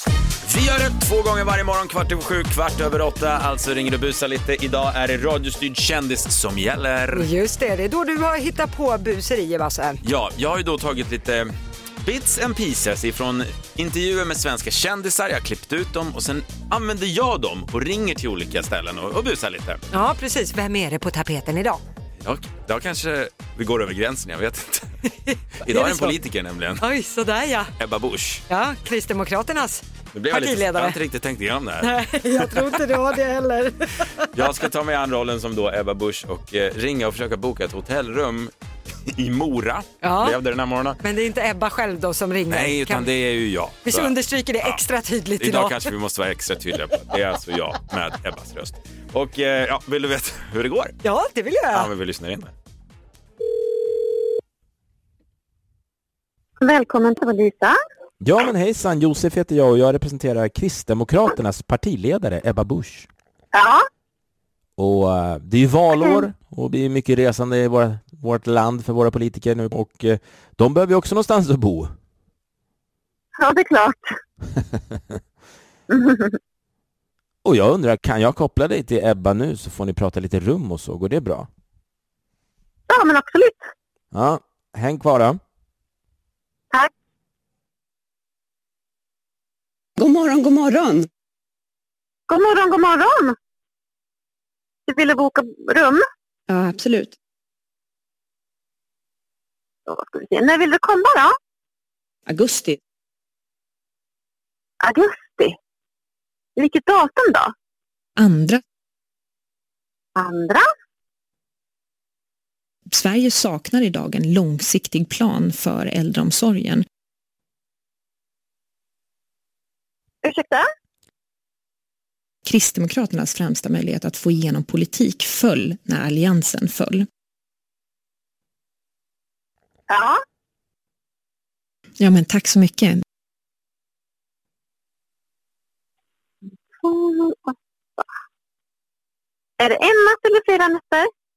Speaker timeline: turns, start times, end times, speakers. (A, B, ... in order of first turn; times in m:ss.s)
0:00.4-0:07.3 A
0:07.1-0:10.0 B
0:10.0-0:19.8 A
0:19.9-0:21.8 B
0:22.2-0:24.9 A
0:25.2-0:26.2 B
0:25.6-0:26.8 A
0:26.8-0:27.7 B
0:27.8-0:28.4 A
0:28.5-0:31.0 B
0:30.1-0:32.8 A
0:31.8-0:34.1 B
0:34.3-0:38.5 A
0:39.0-0:41.0 A
0:40.0-0:40.4 B
0:41.0-0:43.1 B
0:42.5-0:44.8 A
0:43.8-0:45.9 B
0:45.4-0:51.0 A
0:51.0-0:51.9 B
0:51.7-0:52.5 A
0:56.6-0:57.8 C
0:58.2-1:03.1 D
1:03.5-1:03.8 C
1:04.8-1:11.9 D
1:05.9-1:06.2 C
1:13.4-1:14.2 C
1:15.9-1:16.4 C
1:17.4-1:21.5 D
1:22.9-1:23.7 C
1:24.1-1:25.4 D
1:30.0-1:31.1 E
1:32.3-1:33.3 C
1:34.9-1:36.0 C
1:36.5-1:37.1 E
1:39.9-1:41.3 C
1:42.3-1:42.8 E
1:44.8-1:45.6 C
1:46.6-1:47.5 C
1:48.2-1:48.6 E
1:50.2-1:50.7 C
1:52.9-1:56.8 E
2:00.2-2:00.7 C
2:02.4-2:07.0 E
2:09.9-2:10.2 C
2:12.0-2:13.0 E
2:16.8-2:18.0 C
2:19.6-2:21.1 C